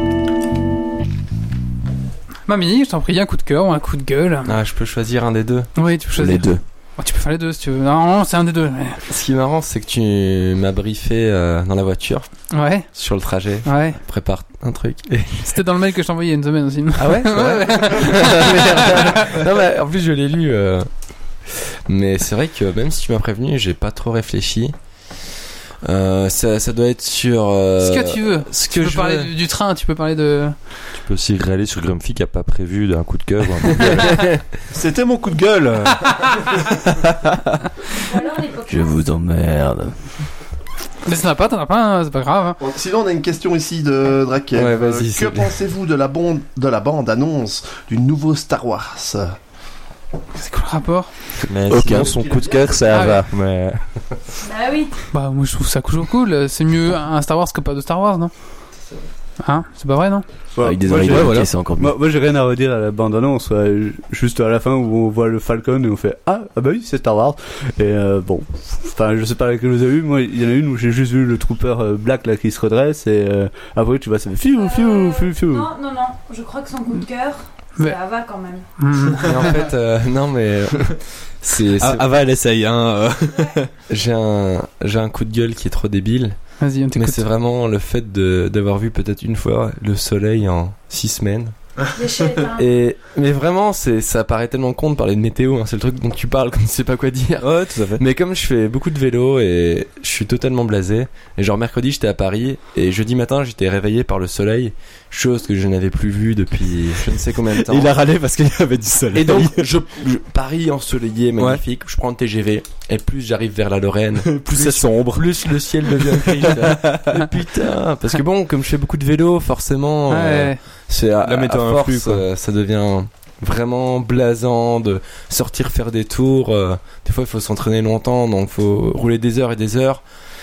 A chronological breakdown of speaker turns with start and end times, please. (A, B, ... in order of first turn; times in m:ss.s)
0:02.5-0:04.5 A
0:04.5-0:05.7 B
0:05.8-0:09.0 A
0:06.2-0:06.6 C
0:09.1-0:12.3 B
0:12.5-0:12.9 A
0:12.9-0:15.6 B
0:13.6-0:14.0 A
0:15.4-0:19.3 A
0:17.0-0:20.9 B
0:21.5-0:24.7 B
0:25.8-0:29.3 B
0:27.8-0:30.6 A
0:31.0-0:34.2 D
0:34.7-0:36.5 E
0:37.9-0:39.0 F
0:38.7-0:40.0 C
0:41.0-0:42.6 A
0:42.6-0:49.4 E
0:44.6-0:45.5 B
0:50.4-0:51.1 A
0:51.5-0:54.0 D
0:51.7-0:53.3 C
0:51.8-0:52.8 E
0:52.9-0:53.2 A
0:54.4-0:55.0 F
0:55.1-0:58.3 A
0:59.4-1:00.2 A
1:00.6-1:15.7 G
1:00.6-1:02.0 C
1:01.0-1:01.5 H
1:14.5-1:18.7 F
1:18.8-1:19.6 A
1:19.2-1:22.1 B
1:21.8-1:23.7 H
1:23.9-1:31.6 B
1:26.6-1:27.2 A
1:31.9-1:32.7 F
1:32.4-1:48.0 B
1:37.4-1:38.0 H
1:47.5-1:49.7 H
1:49.1-2:10.0 B
1:54.2-1:55.3 H
1:56.0-1:57.3 H
2:00.1-2:00.6 A
2:01.2-2:02.2 H